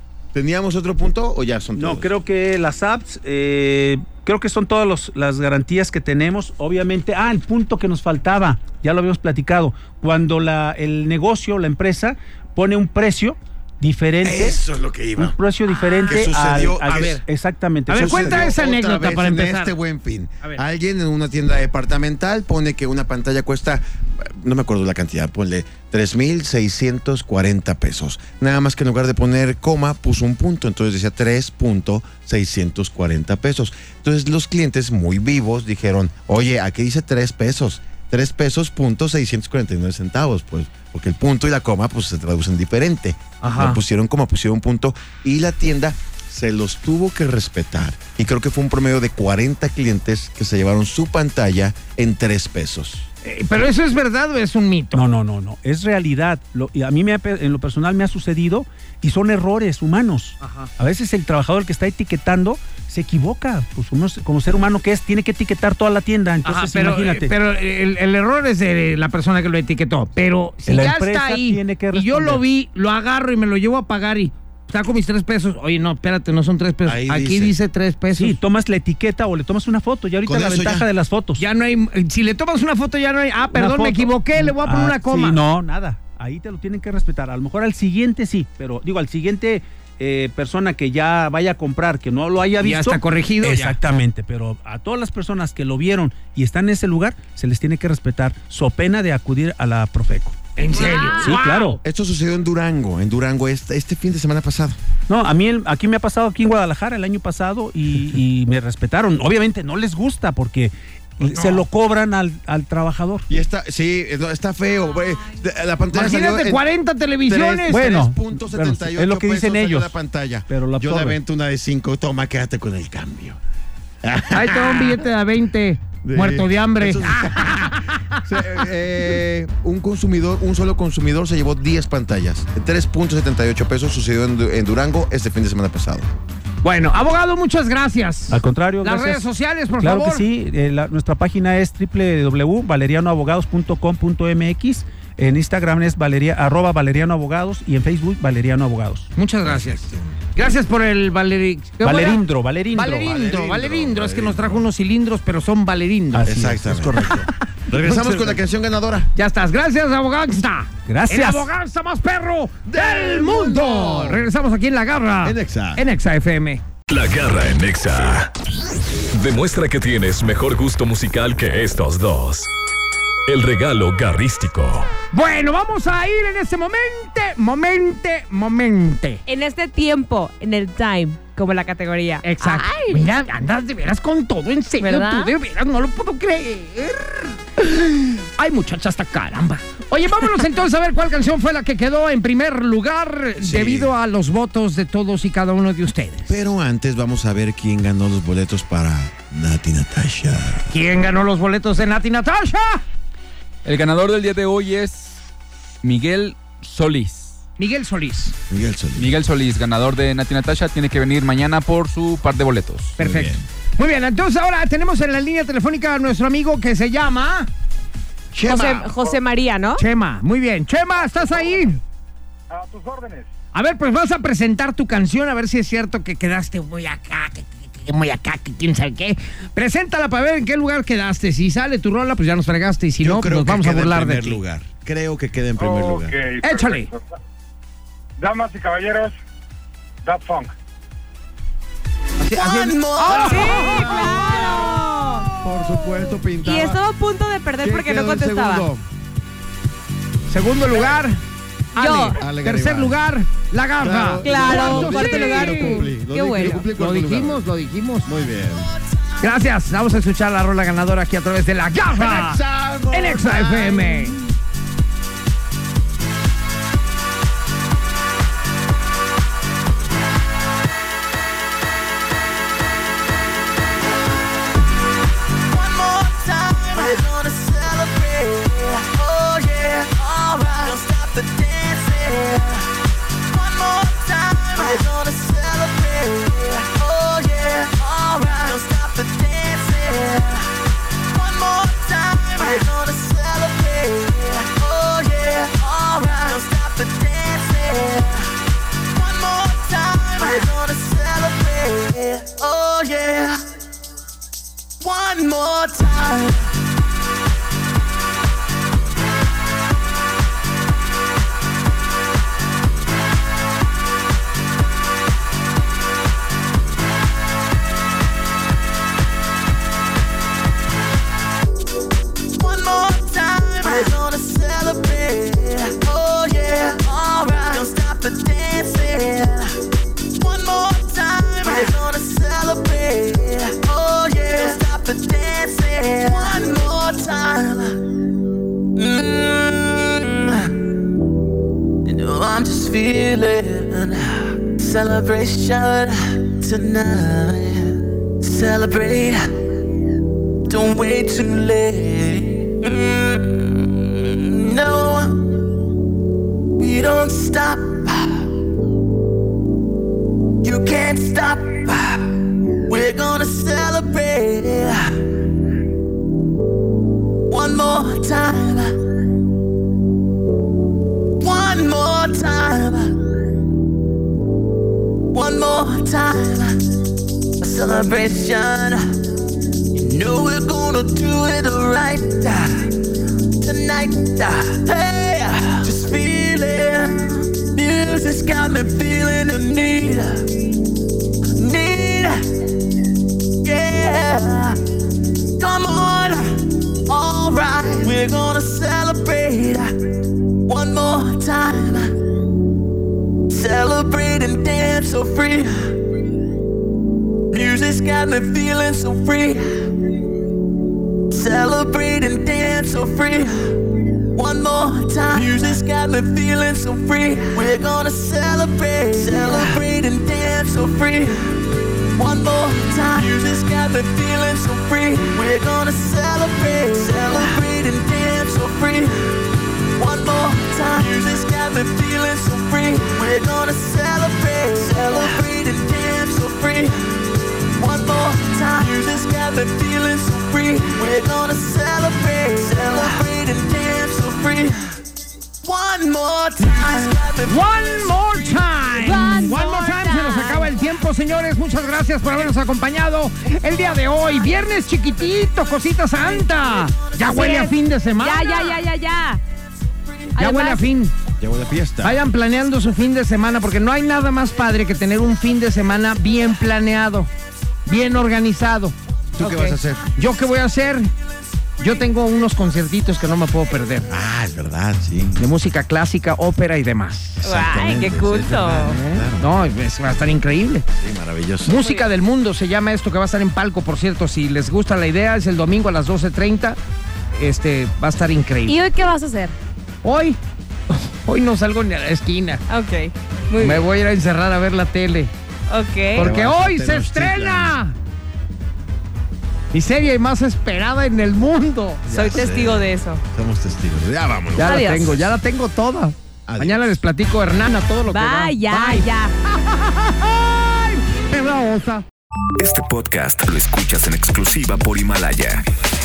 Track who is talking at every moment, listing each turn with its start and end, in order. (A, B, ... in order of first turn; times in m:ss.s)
0:00.3-0:02.1 A
0:01.8-0:14.6 B
0:14.2-0:15.4 A
0:15.2-0:18.6 B
0:16.0-0:17.2 A
0:16.8-0:17.2 C
0:17.9-0:19.7 C
0:17.9-0:53.1 A
0:43.4-0:43.8 C
0:53.2-0:55.0 C
0:54.9-1:07.3 B
1:00.4-1:00.7 C
1:06.4-1:18.4 C
1:10.6-1:12.4 B
1:16.8-1:17.6 A
1:18.1-1:21.4 B
1:20.2-1:20.9 A
1:21.4-1:25.4 C
1:23.5-1:40.5 B
1:32.6-1:33.8 C
1:40.6-1:41.8 C
1:40.7-1:41.4 D
1:41.2-1:41.8 B
1:41.8-1:44.8 A
1:45.1-1:53.3 B
1:51.2-1:51.6 C
1:53.3-1:56.6 A
1:55.0-1:55.4 D
1:55.9-1:57.8 C
1:57.2-2:03.4 A
1:57.7-2:00.0 B
2:00.5-2:01.2 B
2:04.0-2:05.0 A
2:04.3-2:08.2 C
2:06.0-2:16.1 A
2:16.6-2:20.2 C
2:18.3-2:19.3 B
2:19.8-2:29.1 B
2:29.2-2:36.4 C
2:29.4-2:30.1 A
2:31.8-2:33.7 B
2:33.2-2:34.6 A
2:36.1-2:37.2 B
2:36.2-2:39.1 A
2:37.0-2:38.4 C
2:39.2-2:46.6 C
2:40.9-2:41.5 B
2:42.7-2:44.3 A
2:45.2-2:45.8 A
2:46.9-2:48.3 E
2:49.1-2:52.5 E
2:53.3-2:54.9 E
2:55.1-2:59.2 C
2:59.3-3:03.0 D
3:02.2-3:16.3 C
3:04.8-3:05.3 D
3:13.4-3:13.9 A
3:16.3-3:20.7 A
3:20.7-3:22.8 C
3:23.6-3:25.2 F
3:25.8-3:27.4 F
3:27.6-3:28.3 C
3:28.5-3:29.1 A
3:29.0-3:33.0 F
3:33.0-3:37.5 C
3:33.0-3:33.4 A
3:38.3-3:38.9 A
3:38.4-3:39.8 D
3:39.8-3:41.8 C
3:41.0-3:41.8 G
3:42.5-3:43.3 G
3:43.5-3:54.4 C
3:53.0-3:56.2 A
3:55.6-3:57.0 G
3:56.4-3:56.9 C
3:58.2-3:59.2 G
4:00.0-4:00.5 G
4:02.2-4:05.3 C
4:02.3-4:03.6 H
4:03.1-4:05.3 D
4:03.6-4:04.8 A
4:05.4-4:06.8 A
4:06.4-4:08.7 D
4:07.6-4:08.8 A
4:10.3-4:11.2 C
4:11.7-4:15.8 C
4:11.8-4:12.2 D
4:12.2-4:13.0 A
4:13.8-4:17.4 A
4:14.2-4:16.6 D
4:16.7-4:18.1 C
4:18.0-4:18.7 A
4:18.4-4:19.4 H
4:19.2-4:24.2 C
4:21.9-4:24.2 A
4:35.5-4:42.6 H
4:43.2-4:50.5 H
4:51.1-4:58.3 H
4:58.9-5:03.4 H
5:04.8-5:06.4 H
5:22.3-5:29.5 H
5:30.1-5:37.8 H
5:38.8-5:40.4 H
5:41.8-5:47.7 H
5:48.2-5:49.2 H
5:50.5-5:55.2 H
5:56.6-5:58.2 H
6:00.4-6:02.0 H
6:02.7-6:04.9 H
6:07.3-6:08.7 H
6:11.2-6:13.0 H
6:15.1-6:16.6 H
6:17.4-6:18.8 H
6:19.7-6:22.6 H
6:23.4-6:30.3 H
6:31.4-6:32.2 H
6:33.4-6:34.6 H
6:35.4-6:36.3 H
6:36.9-6:39.7 H
6:40.4-6:41.9 H
6:43.3-6:45.5 H
6:47.3-6:49.4 H
6:51.1-6:53.3 H
6:54.1-7:01.3 H
7:01.9-7:09.0 H
7:09.8-7:16.7 H
7:17.5-7:24.5 H
7:25.4-7:28.6 H
7:27.2-7:38.6 C
7:28.8-7:30.5 D
7:35.9-7:37.2 H
7:37.0-7:39.2 D
7:39.7-7:40.2 H
7:40.2-7:40.6 D
7:40.2-7:40.9 C
7:41.2-7:42.0 A
7:41.8-7:47.1 C
7:47.6-7:48.7 C
7:49.2-7:49.8 A
7:49.2-7:49.6 D
7:50.0-7:50.9 C
7:51.6-7:53.9 C
7:53.9-7:55.2 A
7:55.2-7:57.2 C
7:57.2-7:59.4 A
7:57.2-7:58.8 D
7:58.8-8:00.6 C
8:00.7-8:01.6 A
8:01.4-8:06.6 C
8:01.6-8:01.9 D
8:07.2-8:08.6 C
8:08.5-8:09.3 D
8:09.8-8:10.2 C
8:10.7-8:12.4 C
8:12.5-8:13.6 D
8:13.4-8:15.1 C
8:15.5-8:16.1 D
8:16.0-8:17.6 A
8:16.0-8:17.7 C
8:19.5-8:21.8 C
8:21.8-8:25.1 A
8:21.9-8:23.0 D
8:24.4-8:28.8 C
8:24.4-8:24.9 D
8:26.3-8:26.8 A
8:27.9-8:29.1 D
8:29.5-8:31.8 C
8:32.4-8:35.4 I